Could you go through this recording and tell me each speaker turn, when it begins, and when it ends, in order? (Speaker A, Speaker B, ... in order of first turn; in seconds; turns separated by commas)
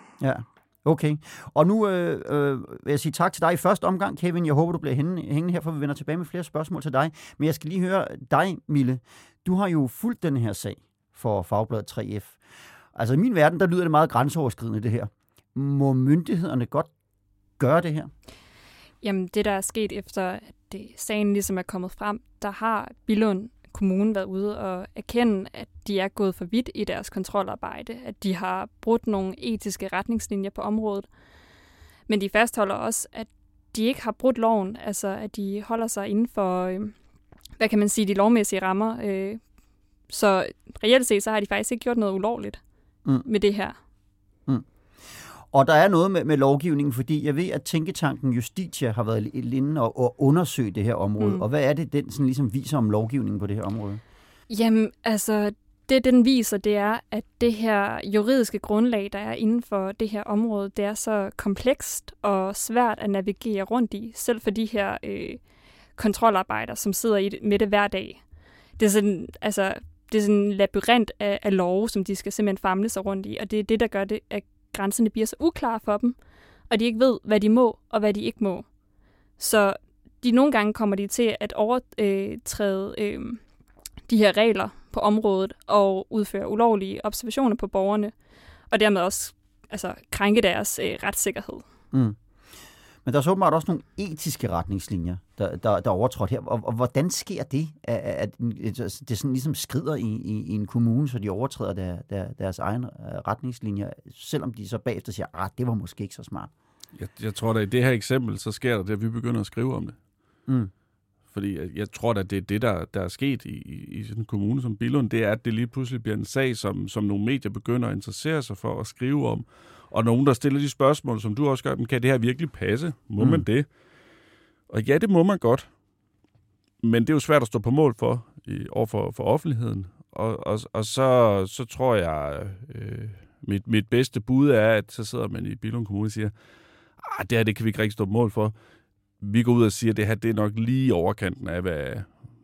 Speaker A: 0.2-12.4, Speaker A: 12.9-16.9, Speaker A: 17.6-18.1, Speaker B: 19.0-31.1, Speaker B: 32.1-36.9, Speaker B: 37.6-39.4, Speaker B: 40.1-42.6, Speaker B: 43.2-43.8, Speaker A: 44.5-54.0, Speaker B: 51.2-51.4, Speaker B: 54.5-65.4, Speaker B: 66.0-68.2, Speaker B: 68.8-76.2, Speaker B: 76.7-78.7, Speaker B: 79.4-83.4, Speaker B: 84.1-88.1, Speaker B: 88.7-91.6, Speaker A: 91.9-92.2, Speaker A: 93.0-106.5, Speaker C: 106.9-110.0, Speaker C: 111.3-123.7, Speaker A: 123.2-123.5, Speaker C: 124.7-125.7, Speaker C: 126.8-136.3, Speaker C: 137.0-138.6, Speaker C: 139.2-142.1